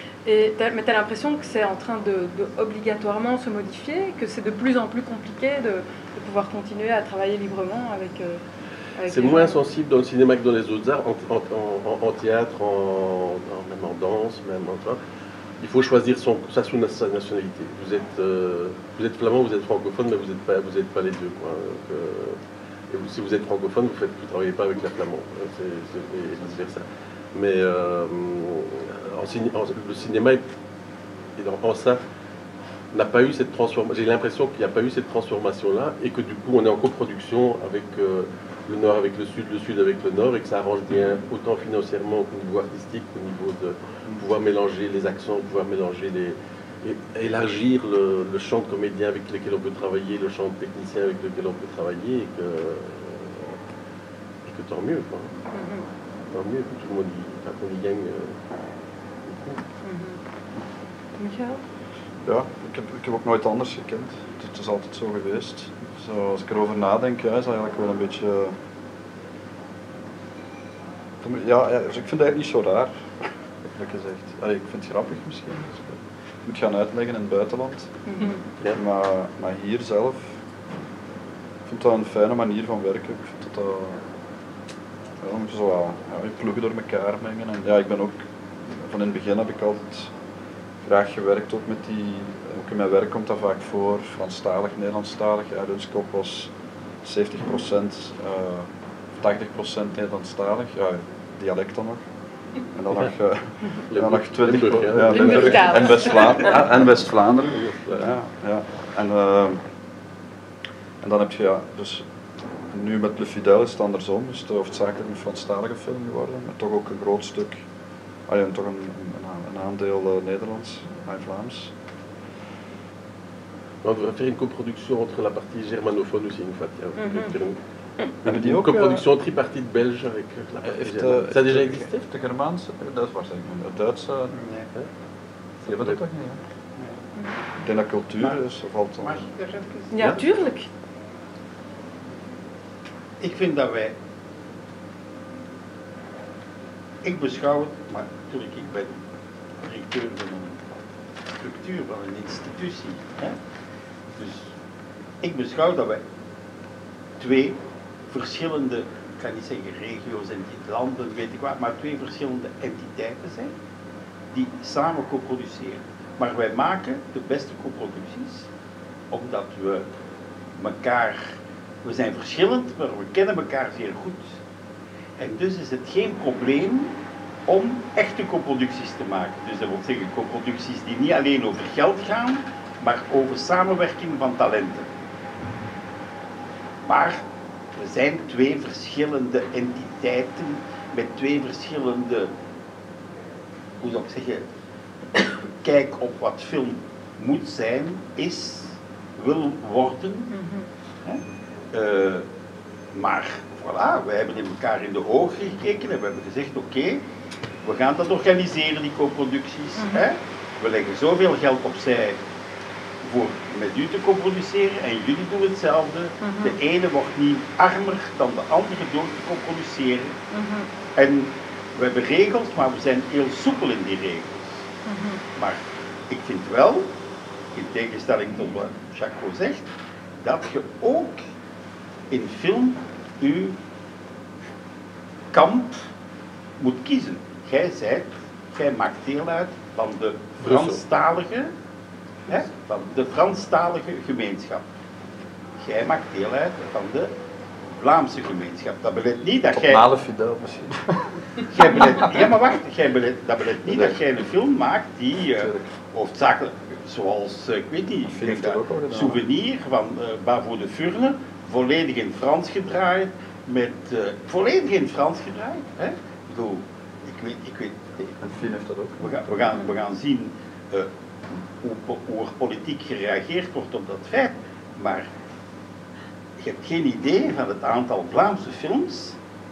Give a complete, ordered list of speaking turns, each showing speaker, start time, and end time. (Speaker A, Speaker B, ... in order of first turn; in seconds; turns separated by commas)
Speaker A: 0.2-8.4, Speaker A: 9.0-9.6, Speaker B: 9.1-15.0, Speaker B: 15.6-22.4, Speaker B: 22.9-30.4, Speaker B: 31.4-32.0, Speaker B: 32.9-53.6, Speaker B: 54.4-55.3, Speaker A: 55.5-55.9, Speaker B: 56.3-58.4, Speaker B: 59.2-59.6, Speaker A: 59.8-60.2, Speaker A: 61.2-61.6, Speaker C: 62.2-68.5, Speaker C: 71.2-78.0, Speaker A: 78.1-78.4, Speaker C: 78.6-80.3, Speaker C: 81.7-84.0, Speaker C: 85.2-90.1, Speaker C: 90.8-96.5, Speaker C: 97.0-102.0, Speaker C: 102.7-109.6, Speaker B: 103.9-106.6, Speaker A: 105.1-106.6, Speaker B: 107.5-108.1, Speaker C: 111.0-112.0, Speaker C: 112.7-117.6, Speaker C: 118.3-121.7, Speaker B: 123.8-127.6, Speaker A: 127.0-127.3, Speaker B: 128.2-132.0, Speaker C: 128.2-129.1, Speaker C: 130.6-134.4, Speaker D: 134.3-134.7, Speaker B: 135.6-136.0, Speaker C: 135.6-136.4, Speaker C: 137.6-139.2, Speaker D: 139.0-140.2, Speaker A: 139.9-140.7, Speaker D: 143.2-143.9, Speaker D: 147.0-149.0, Speaker D: 149.6-150.6, Speaker D: 151.4-153.3, Speaker D: 154.2-154.5, Speaker D: 155.2-156.0, Speaker D: 157.2-163.5, Speaker D: 164.3-168.5, Speaker D: 169.1-169.9, Speaker D: 170.6-174.4, Speaker D: 175.2-184.9, Speaker D: 186.8-187.2, Speaker D: 187.7-192.3, Speaker D: 193.8-194.4, Speaker D: 195.2-200.3, Speaker A: 200.3-200.7, Speaker D: 201.7-202.3, Speaker D: 202.9-207.0, Speaker D: 207.6-212.2, Speaker A: 209.8-210.0, Speaker D: 213.0-220.1, Speaker A: 216.2-216.6, Speaker A: 220.3-220.7, Speaker D: 220.9-224.6, Speaker A: 224.8-225.2, Speaker D: 225.3-226.9, Speaker D: 227.5-229.7, Speaker D: 230.2-231.2, Speaker D: 232.1-233.6, Speaker D: 235.3-235.8, Speaker D: 236.6-241.5, Speaker B: 240.4-240.8, Speaker D: 242.3-244.6, Speaker D: 245.6-247.1, Speaker D: 247.7-249.8, Speaker C: 249.5-251.1, Speaker D: 251.5-268.1, Speaker C: 253.6-254.0, Speaker C: 255.4-255.7, Speaker C: 258.1-259.2, Speaker C: 268.2-269.2, Speaker D: 269.0-275.1, Speaker D: 276.4-279.2